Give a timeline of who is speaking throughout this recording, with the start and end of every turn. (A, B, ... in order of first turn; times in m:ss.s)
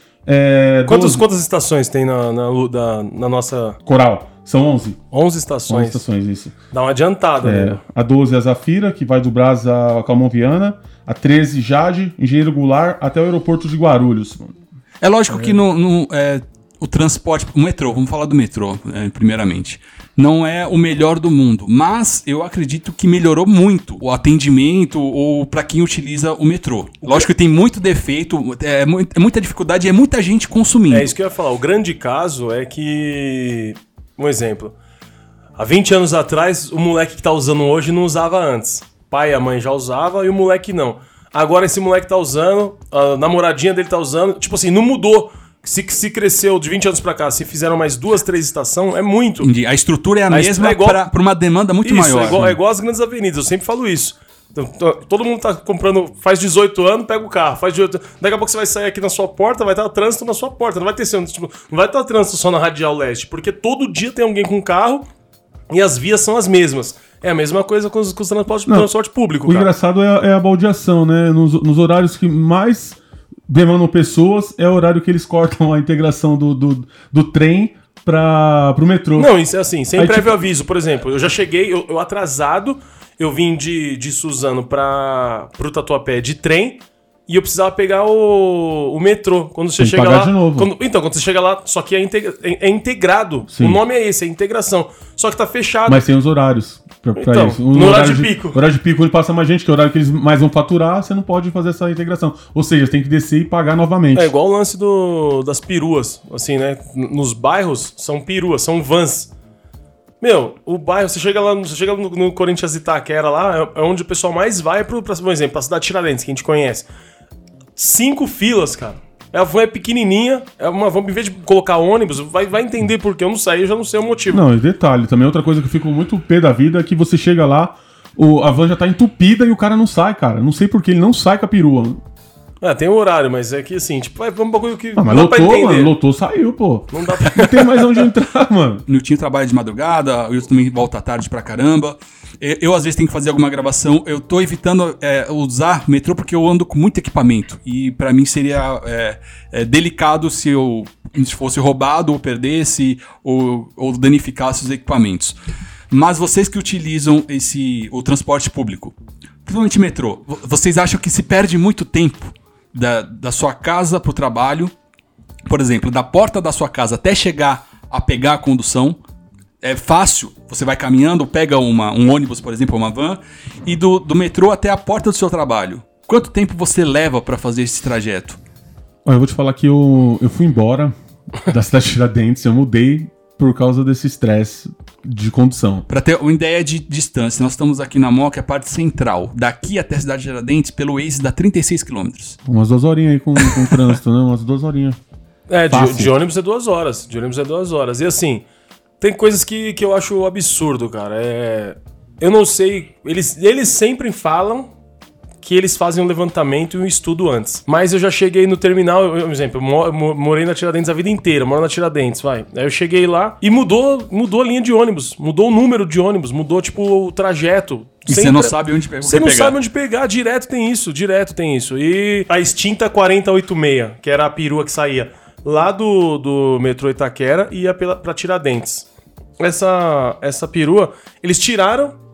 0:00.3-0:01.2 A
0:00.9-0:03.8 B
0:03.9-0:05.0 A
0:05.1-0:06.0 B
0:05.7-0:06.5 A
0:06.7-0:07.8 B
0:07.4-0:14.6 A
0:15.0-0:31.1 C
0:30.9-0:34.8 B
0:35.6-0:49.5 B
0:49.4-0:52.6 C
0:50.3-0:51.0 B
0:51.8-1:05.1 B
1:05.7-1:09.7 B
1:09.4-1:19.3 A
1:19.2-1:36.0 B
1:20.0-1:20.4 A
1:29.8-1:30.7 A
1:33.5-1:33.8 A
1:35.9-1:44.3 A
1:37.2-1:38.6 B
1:44.1-1:49.3 B
1:50.2-1:56.9 B
1:57.8-2:04.4 B
2:04.3-2:12.0 A
2:12.6-2:15.9 B
2:15.0-2:18.8 A
2:16.9-2:17.8 B
2:18.9-2:35.4 C
2:35.9-2:39.0 C
2:39.5-2:44.7 C
2:45.5-2:49.0 C
2:49.6-2:58.4 C
2:59.0-3:05.8 A
3:05.9-3:12.4 C
3:12.5-3:15.0 A
3:13.4-3:13.8 C
3:15.5-3:18.4 B
3:15.7-3:16.1 A
3:19.0-3:24.7 B
3:25.4-3:48.9 B
3:38.1-3:39.6 C
3:49.4-3:52.0 B